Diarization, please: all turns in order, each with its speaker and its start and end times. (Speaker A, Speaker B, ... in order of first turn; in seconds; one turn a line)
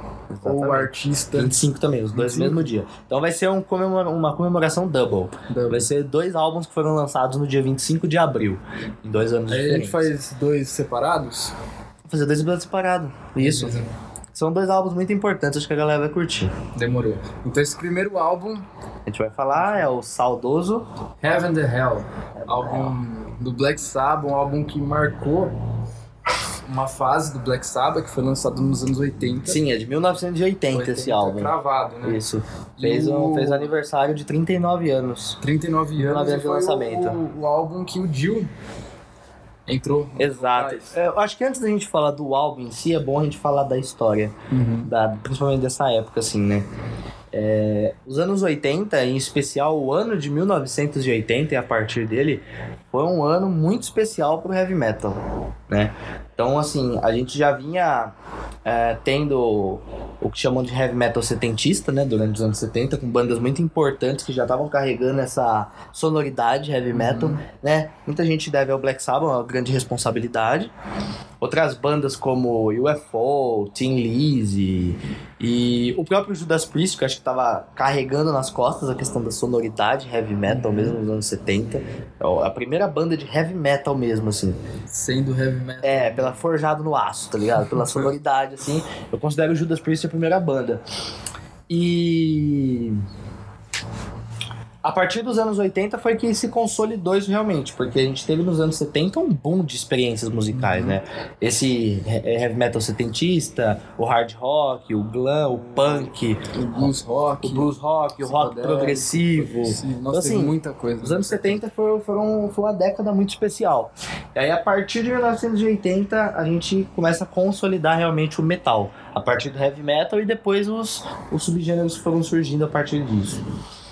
Speaker A: 0.3-10.1
Speaker B: 0.4-1.6
Speaker B: 2.1-2.7
Speaker B: 5.5-5.9
Speaker B: 9.5-11.5
Speaker A: 12.1-13.8
Speaker B: 13.4-13.9
Speaker A: 14.3-16.5
Speaker B: 16.7-18.6
Speaker A: 19.1-20.9
Speaker B: 19.5-19.9
Speaker B: 21.2-25.5
Speaker A: 22.5-22.9
Speaker B: 26.6-29.6
Speaker A: 29.4-35.4
Speaker B: 30.7-32.2
Speaker B: 32.8-33.7
Speaker B: 35.4-38.5
Speaker A: 36.0-37.2
Speaker B: 39.7-41.0
Speaker A: 40.2-46.7
Speaker B: 44.5-44.9
Speaker A: 47.3-58.1
Speaker A: 58.6-70.7
Speaker B: 66.9-67.4
Speaker A: 71.4-84.6
Speaker B: 80.5-81.0
Speaker B: 84.9-86.4
Speaker A: 85.8-90.8
Speaker A: 91.7-93.0
Speaker A: 94.8-106.9
Speaker B: 100.5-101.0
Speaker B: 105.6-111.6
Speaker A: 107.4-123.4